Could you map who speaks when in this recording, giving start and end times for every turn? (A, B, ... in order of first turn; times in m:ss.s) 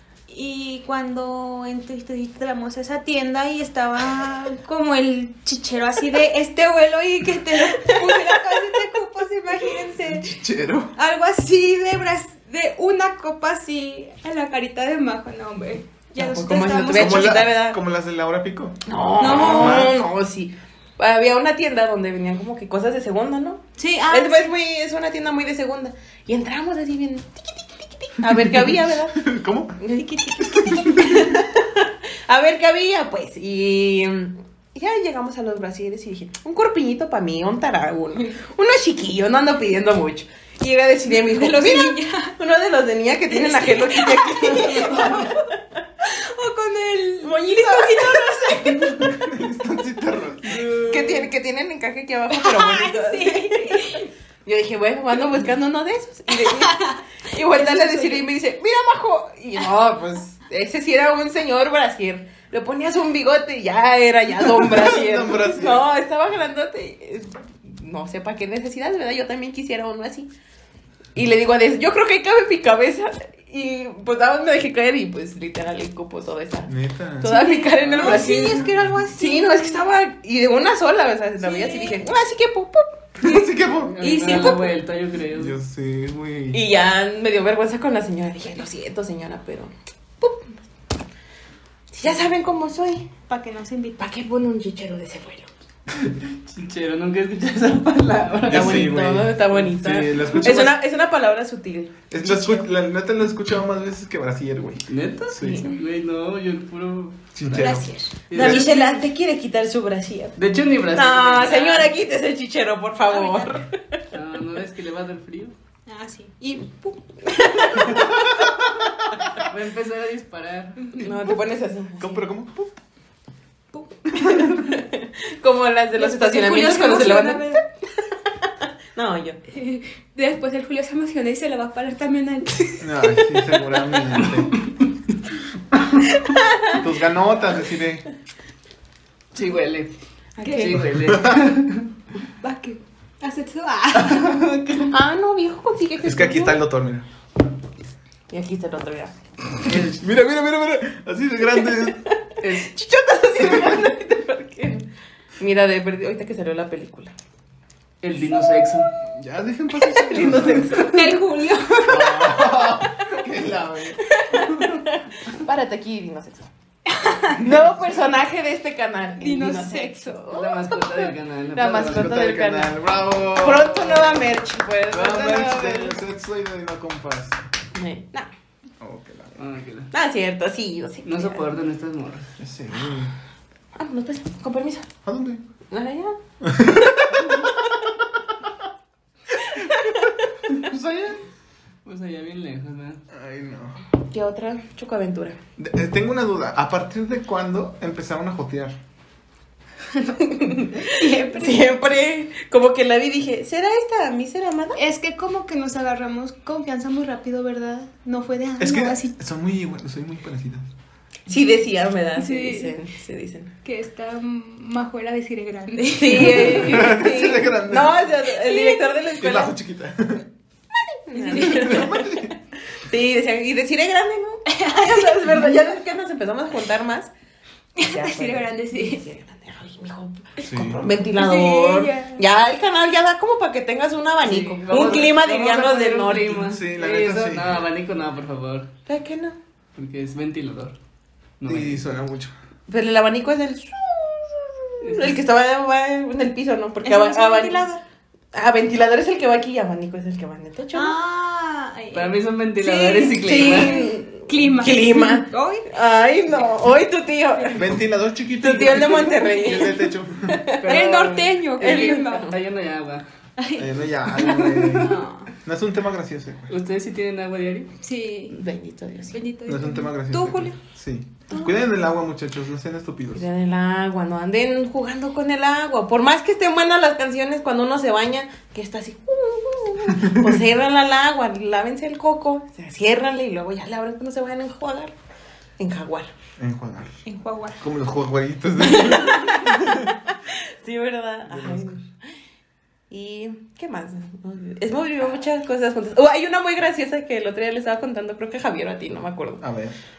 0:00.3-0:10.3 A
0:10.0-0:10.9 B
0:11.0-0:17.4 A
0:16.2-0:17.8 C
0:16.9-0:20.0 B
0:18.8-0:29.2 C
0:19.2-0:19.9 A
0:23.8-0:24.5 A
0:28.3-0:29.8 B
0:29.8-0:45.5 C
0:30.4-0:31.4 B
0:41.2-0:42.4 A
0:43.3-0:45.4 A
0:46.0-0:49.2 A
0:47.2-0:49.0 C
0:49.0-0:50.7 B
0:50.4-0:51.3 D
0:50.9-1:10.3 C
0:52.3-0:54.1 A
0:56.4-0:58.2 A
1:04.4-1:05.9 B
1:11.1-1:23.4 C
1:16.7-1:17.4 B
1:17.2-1:19.8 A
1:18.0-1:19.0 B
1:21.4-1:22.0 A
1:23.2-1:23.9 B
1:23.8-1:25.5 D
1:24.0-1:24.7 A
1:25.3-1:26.6 B
1:26.5-1:30.6 C
1:31.9-1:33.0 C
1:33.3-1:34.0 A
1:34.0-1:35.5 C
1:36.0-1:38.9 D
1:38.4-1:40.8 B
1:38.5-1:42.7 C
1:42.1-1:45.7 B
1:44.9-1:48.8 D
1:47.3-1:47.9 B
1:47.6-1:49.0 A
1:48.3-1:50.4 C
1:50.4-1:51.9 D
1:50.9-1:53.8 C
1:53.1-1:53.6 A
1:54.1-1:55.5 D
1:55.9-1:58.0 A
1:57.3-1:58.0 C
1:58.0-1:58.4 B
1:59.4-2:01.0 D
2:00.9-2:02.2 C
2:02.0-2:02.8 B
2:03.7-2:04.6 A
2:04.2-2:07.6 C
2:06.0-2:07.6 A
2:08.4-2:09.4 C
2:09.5-2:13.8 A
2:12.8-2:14.6 B
2:14.2-2:14.9 D
2:16.7-2:18.0 B
2:19.3-2:19.9 D
2:20.4-2:20.8 C
2:20.4-2:20.8 A
2:20.5-2:21.9 D
2:20.9-2:21.4 B
2:22.4-2:24.4 A
2:24.0-2:24.9 D
2:24.9-2:26.6 C
2:26.0-2:27.0 B
2:28.3-2:29.1 C
2:29.6-2:30.0 D
2:29.9-2:32.0 B
2:31.8-2:34.9 C
2:32.4-2:32.7 D
2:33.4-2:33.8 B
2:35.4-2:37.1 C
2:38.0-2:38.9 D
2:39.1-2:40.8 B
2:40.0-2:41.2 C
2:40.7-2:42.4 A
2:41.9-2:44.0 B
2:44.0-2:46.5 C
2:46.9-2:47.4 A
2:47.4-2:52.8 C
2:49.2-2:50.3 A
2:50.3-2:52.2 D
2:51.8-2:54.2 B
2:53.3-2:56.0 C
2:54.9-2:57.4 B
2:57.7-2:58.3 C
2:58.8-2:59.4 B
2:59.4-2:59.9 D
2:59.9-3:01.4 C
3:01.0-3:02.3 D
3:02.4-3:03.1 B
3:03.8-3:04.9 C
3:05.0-3:05.4 B
3:05.7-3:07.5 C
3:06.4-3:07.5 B
3:09.5-3:10.1 C
3:10.5-3:11.2 B
3:11.8-3:13.0 D
3:13.1-3:13.8 B
3:14.1-3:15.4 C
3:15.6-3:18.8 B
3:19.9-3:21.7 A
3:20.2-3:24.8 C
3:24.8-3:29.1 A
3:28.6-3:30.6 B
3:31.3-3:33.5 C
3:32.2-3:32.8 A
3:33.6-3:37.4 A
3:35.9-3:39.6 C
3:36.2-3:38.1 B
3:38.3-3:39.0 A
3:39.2-3:40.2 B
3:41.0-3:47.1 C
3:41.1-3:42.0 A
3:41.3-3:42.3 B
3:44.5-3:45.6 A
3:47.8-3:49.0 A
3:47.8-3:56.5 C
3:50.4-3:50.8 B
3:51.2-3:52.2 A
3:54.2-3:58.7 D
3:56.4-3:57.6 B
3:58.9-3:59.4 C
3:59.8-4:00.8 D
4:01.4-4:01.8 D
4:01.4-4:02.3 B
4:02.7-4:07.6 C
4:04.8-4:05.2 D
4:06.8-4:07.8 A
4:08.3-4:10.9 C
4:10.7-4:15.7 A
4:11.9-4:13.8 D
4:13.2-4:17.7 C
4:17.5-4:20.4 B
4:18.4-4:20.6 C
4:20.6-4:23.0 D
4:20.6-4:22.3 A
4:21.6-4:22.4 C
4:23.4-4:25.3 A
4:23.6-4:26.5 B
4:26.5-4:27.7 D
4:27.8-4:28.4 A
4:28.3-4:29.2 C
4:29.1-4:30.5 A
4:29.4-4:33.2 B
4:33.1-4:44.9 C
4:40.0-4:40.3 B
4:45.6-4:46.1 C
4:46.4-4:46.9 B
4:47.0-4:47.6 A
4:47.6-4:49.9 B
4:48.8-4:49.4 A
4:48.8-4:51.8 C
4:51.3-4:51.8 B
4:52.9-4:59.4 C
4:59.4-4:59.8 B